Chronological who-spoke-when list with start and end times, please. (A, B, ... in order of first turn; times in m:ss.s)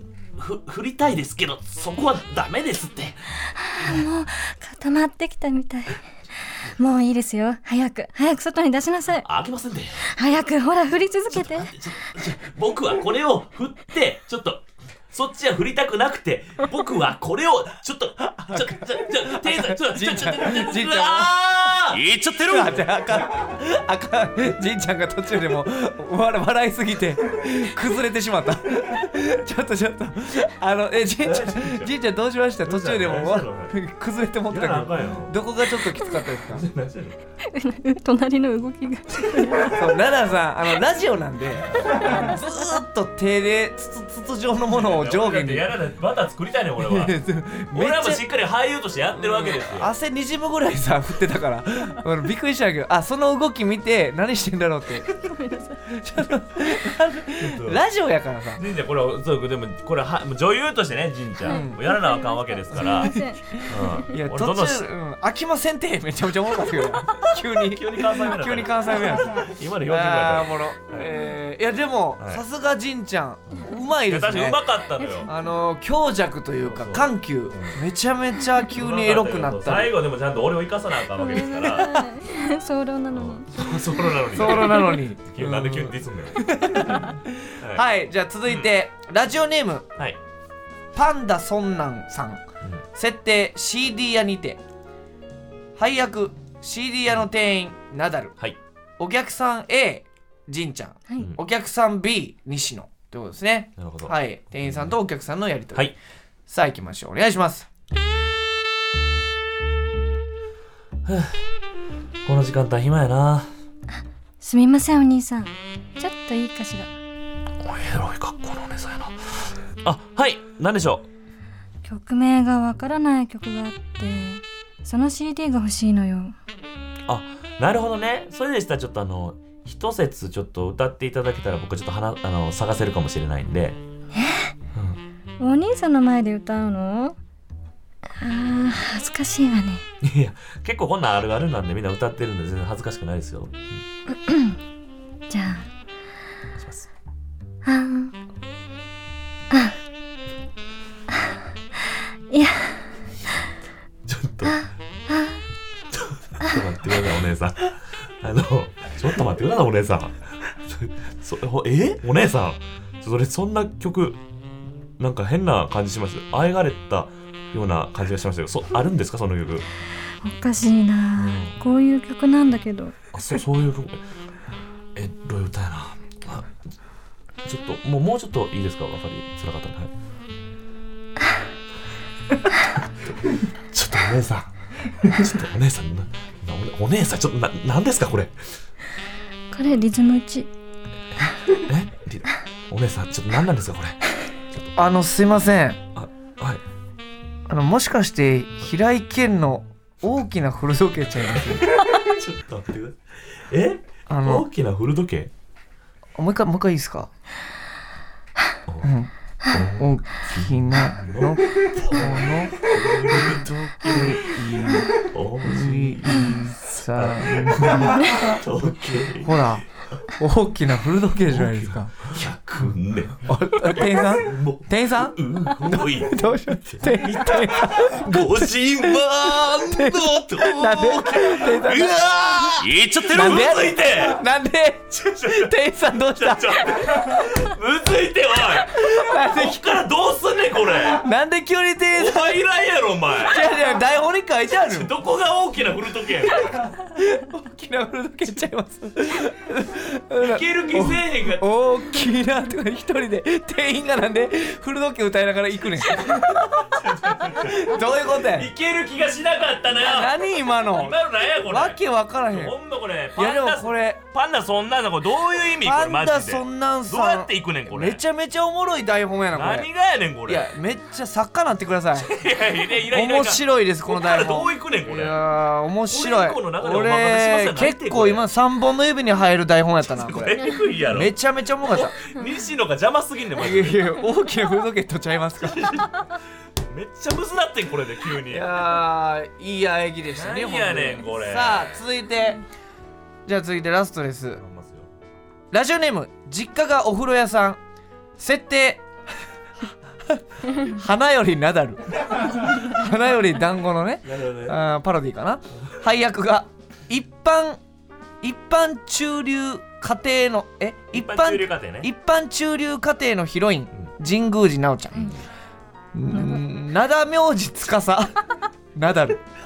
0:00.4-0:03.3 A
0:03.4-0:09.3 B
0:09.2-0:10.0 A
0:10.0-0:11.7 B
0:11.3-0:22.9 A
0:18.4-0:36.6 C
0:31.2-0:31.9 A
0:32.6-0:33.7 A
0:34.5-0:35.4 A
0:36.5-0:37.2 A
0:37.4-0:39.8 B
0:39.6-0:45.7 C
0:41.8-0:42.1 A
0:44.7-0:47.1 A
0:46.8-0:48.2 C
0:47.7-0:49.9 A
0:49.1-0:55.2 C
0:55.3-0:55.8 B
0:55.9-0:58.6 C
0:57.4-0:57.8 A
0:58.6-1:04.9 A
1:01.4-1:01.8 C
1:01.5-1:03.4 B
1:02.8-1:14.6 C
1:07.5-1:11.1 A
1:12.2-1:12.4 A
1:13.5-1:15.3 A
1:15.0-1:15.3 B
1:15.2-1:19.9 C
1:16.6-1:17.8 A
1:18.7-1:22.1 A
1:21.2-1:23.9 B
1:23.1-1:27.1 A
1:24.3-1:29.9 C
1:27.6-1:27.8 A
1:28.4-1:28.7 A
1:30.9-1:32.4 C
1:32.9-1:34.6 C
1:35.8-1:38.4 C
1:39.0-1:45.9 C
1:43.8-1:45.0 A
1:46.5-1:47.7 C
1:51.0-1:51.5 A
1:52.2-1:53.5 A
1:54.4-1:56.9 B
1:57.6-2:01.1 A
2:01.8-2:06.4 B
2:07.1-2:13.8 A
2:14.1-2:14.5 B
2:14.7-2:15.0 A
2:15.4-2:17.2 B
2:18.2-2:19.8 B
2:20.0-2:23.8 A
2:24.1-2:24.6 B
2:25.3-2:25.7 B
2:26.6-2:26.9 A
2:27.6-2:28.1 B
2:29.5-2:29.8 B
2:32.3-2:32.9 B
2:34.0-2:34.6 A
2:34.4-2:35.4 B
2:35.9-2:44.2 A
2:45.0-2:49.7 A
2:50.2-2:53.0 B
2:51.2-2:51.6 A
2:53.1-2:54.0 A
2:55.0-2:56.6 A
2:57.4-2:59.9 A
3:03.7-3:04.5 A
3:05.0-3:08.4 A
3:09.5-3:10.5 B
3:11.5-3:14.0 A
3:14.8-3:15.8 C
3:15.9-3:16.6 A
3:17.5-3:21.8 C
3:21.8-3:25.3 A
3:24.1-3:24.4 C
3:26.2-3:27.1 C
3:28.8-3:39.6 C
3:29.5-3:34.3 A
3:35.0-3:40.0 A
3:40.2-3:42.7 C
3:41.3-3:54.2 A
3:43.2-3:57.3 C
3:55.0-3:55.5 A
3:56.1-4:01.0 A
3:58.7-3:59.7 C
4:01.0-4:02.4 C
4:01.9-4:03.6 A
4:03.2-4:04.9 C
4:04.6-4:06.7 A
4:06.8-4:16.6 C
4:10.2-4:11.4 A
4:15.9-4:28.0 A
4:17.3-4:18.5 C
4:19.8-4:22.6 C
4:23.2-4:24.0 C
4:25.6-4:29.7 C
4:29.3-4:30.5 A
4:30.3-4:32.1 C
4:31.9-4:35.2 A
4:32.9-4:42.0 C
4:35.9-4:38.2 A
4:39.9-4:41.1 A
4:41.7-4:44.0 A
4:43.4-4:45.7 C
4:45.4-4:46.1 A
4:46.6-4:48.5 A
4:48.3-4:52.4 C
4:50.1-4:51.8 A
4:53.2-4:54.4 C
4:54.4-4:54.9 A
4:55.5-4:57.6 C
4:58.2-4:58.8 C
5:00.1-5:07.6 C
5:04.0-5:04.6 A
5:08.2-5:15.1 C
5:10.9-5:11.9 A
5:15.9-5:18.2 C
5:16.1-5:16.4 B
5:18.7-5:19.2 C